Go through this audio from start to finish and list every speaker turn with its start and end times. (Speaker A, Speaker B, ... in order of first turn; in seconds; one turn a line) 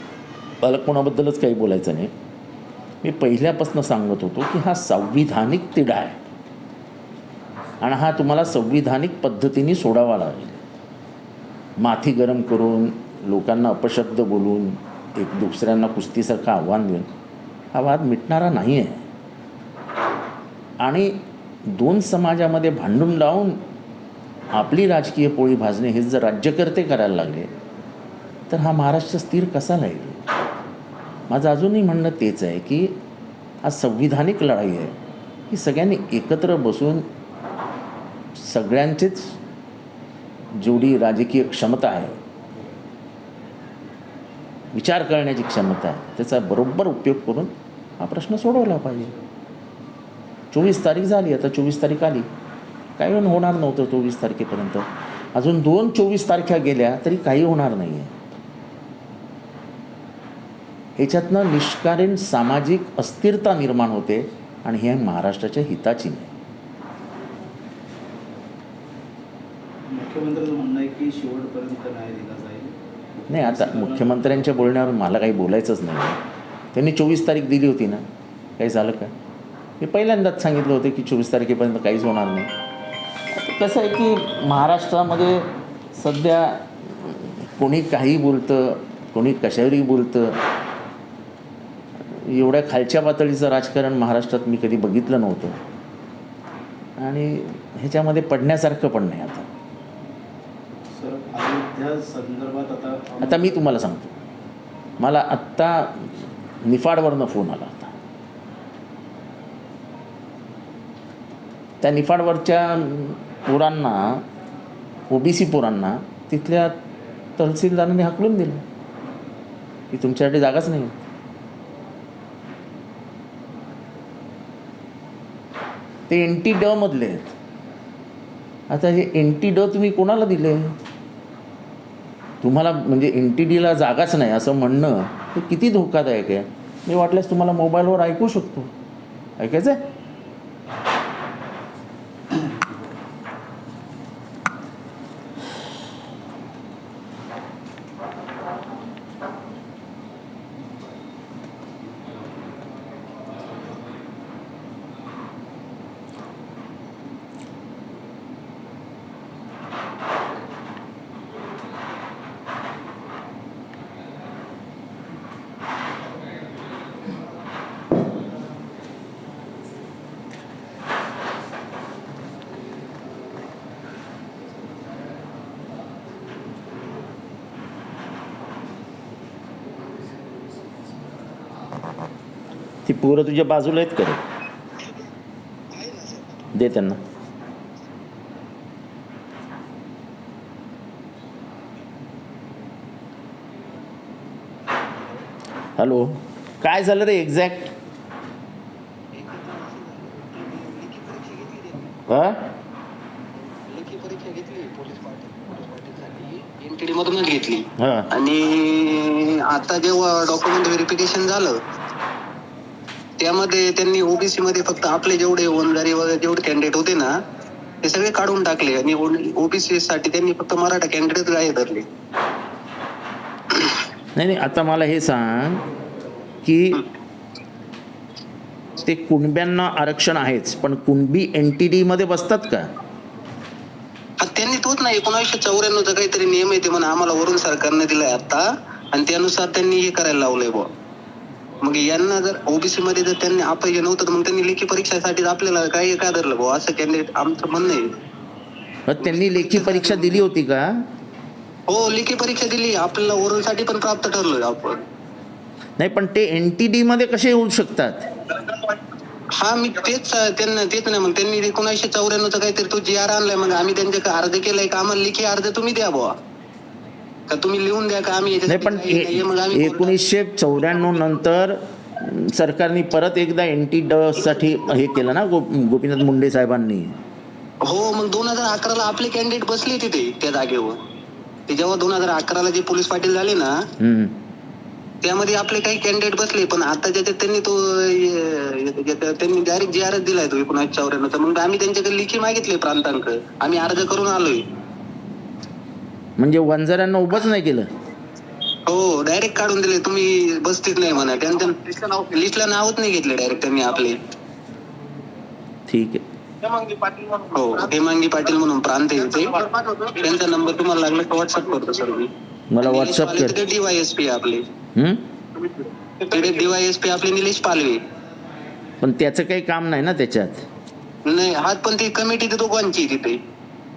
Speaker A: 0.6-2.1
Speaker A: 3.0-6.2
Speaker A: 7.8-10.6
Speaker A: 11.8-17.1
Speaker A: 17.7-19.1
Speaker A: 20.8-21.1
Speaker A: 21.7-23.6
Speaker A: 24.5-27.5
Speaker A: 28.5-30.2
Speaker A: 31.3-32.9
Speaker A: 33.6-34.9
Speaker A: 35.5-37.0
Speaker A: 38.4-39.4
Speaker A: 40.5-42.1
Speaker A: 44.7-49.1
Speaker A: 50.5-52.3
Speaker A: 53.0-58.1
Speaker A: 61.0-66.3
Speaker B: 69.9-74.3
Speaker A: 73.3-76.2
Speaker A: 76.7-78.0
Speaker A: 78.6-79.1
Speaker A: 79.8-82.5
Speaker A: 83.3-90.4
Speaker A: 92.1-95.6
Speaker A: 97.0-99.5
Speaker B: 100.9-103.6
Speaker A: 103.2-104.1
Speaker A: 105.0-107.9
Speaker A: 111.8-114.2
Speaker A: 115.1-116.7
Speaker A: 117.4-118.6
Speaker A: 119.9-120.9
Speaker A: 126.1-127.3
Speaker A: 128.7-130.7
Speaker A: 132.4-138.7
Speaker A: 139.4-139.8
Speaker A: 182.8-184.2
Speaker C: 185.7-186.4
Speaker A: 186.5-187.0
Speaker A: 195.8-197.7
Speaker C: 199.1-202.0
Speaker A: 202.1-202.4
Speaker C: 203.7-211.6
Speaker A: 207.8-208.1
Speaker C: 213.2-217.1
Speaker C: 217.8-221.8
Speaker A: 224.2-225.6
Speaker A: 226.4-226.8
Speaker A: 228.8-232.7
Speaker C: 234.2-240.7
Speaker C: 241.6-247.9
Speaker A: 248.9-250.7
Speaker C: 249.0-250.3
Speaker C: 251.7-254.8
Speaker A: 255.8-258.1
Speaker C: 258.4-258.7
Speaker C: 259.4-266.1
Speaker C: 267.3-269.9
Speaker A: 268.5-276.9
Speaker C: 277.6-280.8
Speaker C: 281.5-283.5
Speaker A: 283.8-284.1
Speaker C: 285.0-294.5
Speaker A: 296.2-297.7
Speaker C: 298.7-304.0
Speaker A: 305.7-306.0
Speaker C: 306.5-312.1
Speaker A: 312.5-313.4
Speaker C: 312.6-314.4
Speaker A: 314.7-315.0
Speaker C: 315.4-317.8
Speaker A: 318.8-320.4
Speaker C: 321.1-323.2